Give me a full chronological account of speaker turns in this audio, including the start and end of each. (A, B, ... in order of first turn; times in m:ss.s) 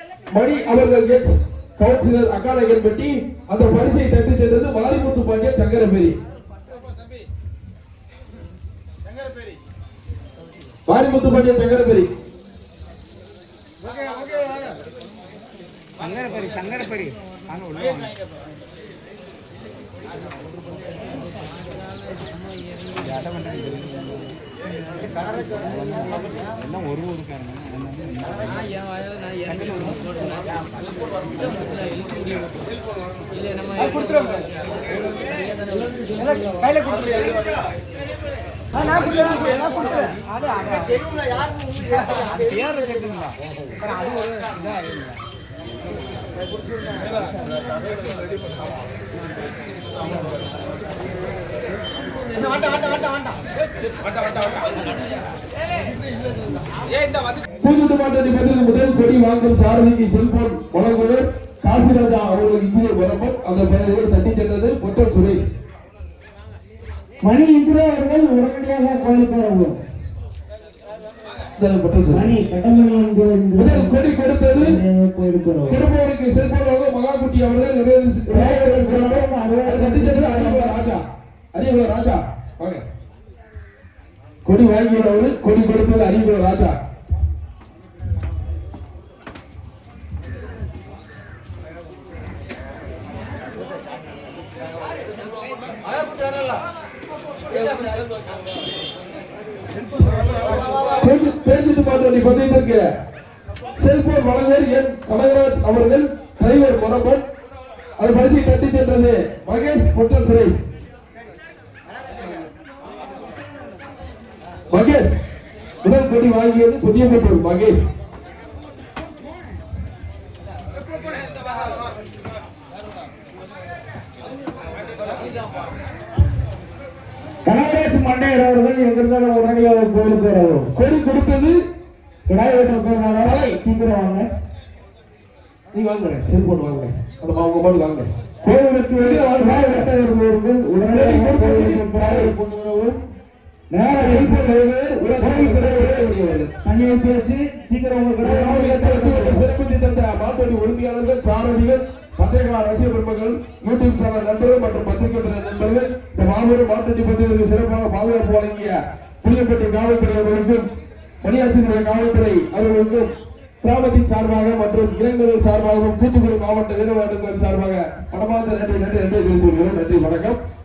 0:00.3-0:06.1 A
0:10.9-0:12.1 A
0:16.3-0:16.9 B
0:16.4-0:16.9 C
0:17.5-0:18.0 B
0:23.1-0:24.2 B
0:25.9-0:28.7 B
0:29.4-0:30.1 B
0:34.0-0:34.3 B
0:38.8-0:40.1 A
0:42.3-0:43.4 B
0:57.6-1:05.5 A
1:07.2-1:09.8 C
1:11.6-1:12.3 A
1:12.1-1:15.8 C
1:13.6-1:14.7 A
1:15.7-1:21.0 A
1:18.3-1:20.7 C
1:21.5-1:22.8 A
1:24.4-1:26.8 A
1:40.9-1:42.8 A
1:43.8-1:47.2 A
1:48.0-1:50.6 A
1:54.7-1:55.1 A
1:55.8-1:57.9 A
2:07.4-2:10.7 C
2:10.7-2:11.5 A
2:12.3-2:14.3 C
2:13.2-2:13.6 A
2:15.7-2:18.1 A
2:18.4-2:23.0 C
2:19.0-2:19.9 A
2:20.8-2:22.3 A
2:23.7-2:26.0 C
2:23.9-2:26.5 A
2:26.6-2:29.4 C
2:28.2-2:40.6 A
2:41.2-2:50.4 A